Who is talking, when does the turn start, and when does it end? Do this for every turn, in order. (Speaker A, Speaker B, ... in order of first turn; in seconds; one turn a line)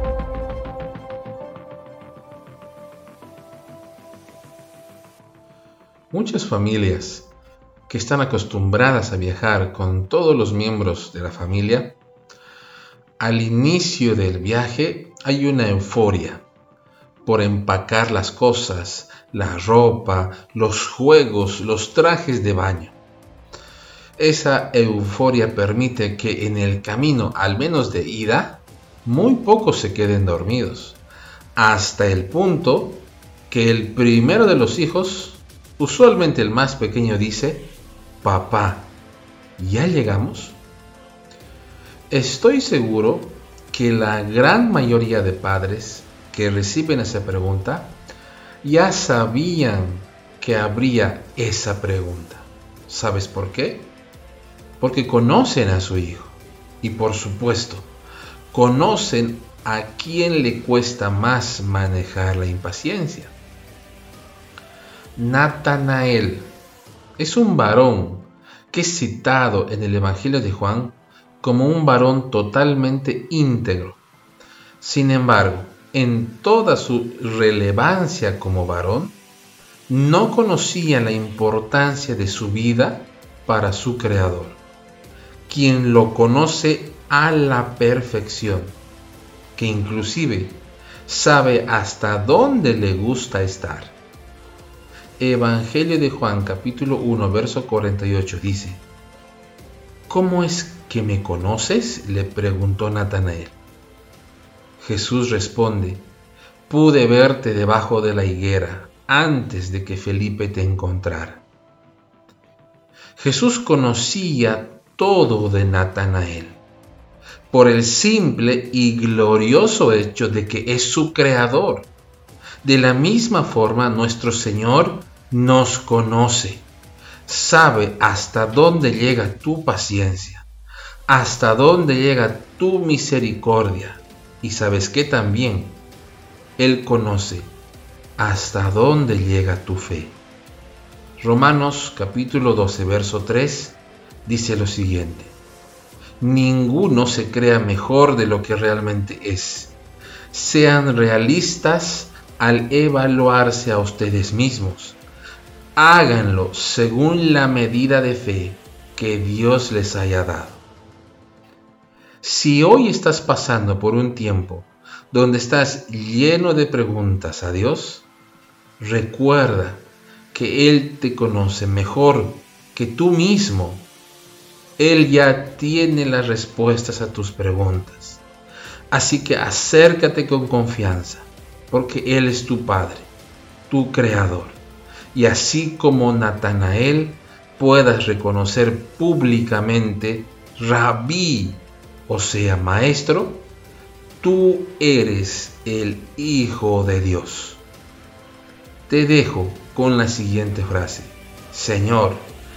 Speaker A: 6.1-7.3
Speaker A: 7.9-12.0
Speaker A: 13.2-16.5
Speaker A: 17.2-23.0
Speaker A: 24.2-31.0
Speaker A: 31.6-39.0
Speaker A: 39.6-40.6
Speaker A: 42.1-48.0
Speaker A: 48.6-54.0
Speaker A: 54.8-57.9
Speaker A: 58.5-63.4
Speaker A: 65.2-66.6
Speaker A: 67.2-74.0
Speaker A: 74.8-79.2
Speaker A: 79.9-84.6
Speaker A: 85.5-88.8
Speaker A: 89.6-94.0
Speaker A: 95.2-98.8
Speaker A: 100.1-103.6
Speaker A: 104.8-106.1
Speaker A: 106.7-111.5
Speaker A: 113.2-116.6
Speaker A: 117.5-121.9
Speaker A: 122.6-126.7
Speaker A: 127.2-130.5
Speaker A: 131.1-135.8
Speaker A: 136.6-137.6
Speaker A: 138.2-140.2
Speaker A: 141.2-145.4
Speaker A: 146.2-149.8
Speaker A: 150.3-155.0
Speaker A: 155.8-160.6
Speaker A: 162.2-168.1
Speaker A: 168.8-173.9
Speaker A: 174.8-178.2
Speaker A: 178.9-183.1
Speaker A: 183.7-184.6
Speaker A: 185.1-193.5
Speaker A: 194.2-197.6
Speaker A: 198.9-202.4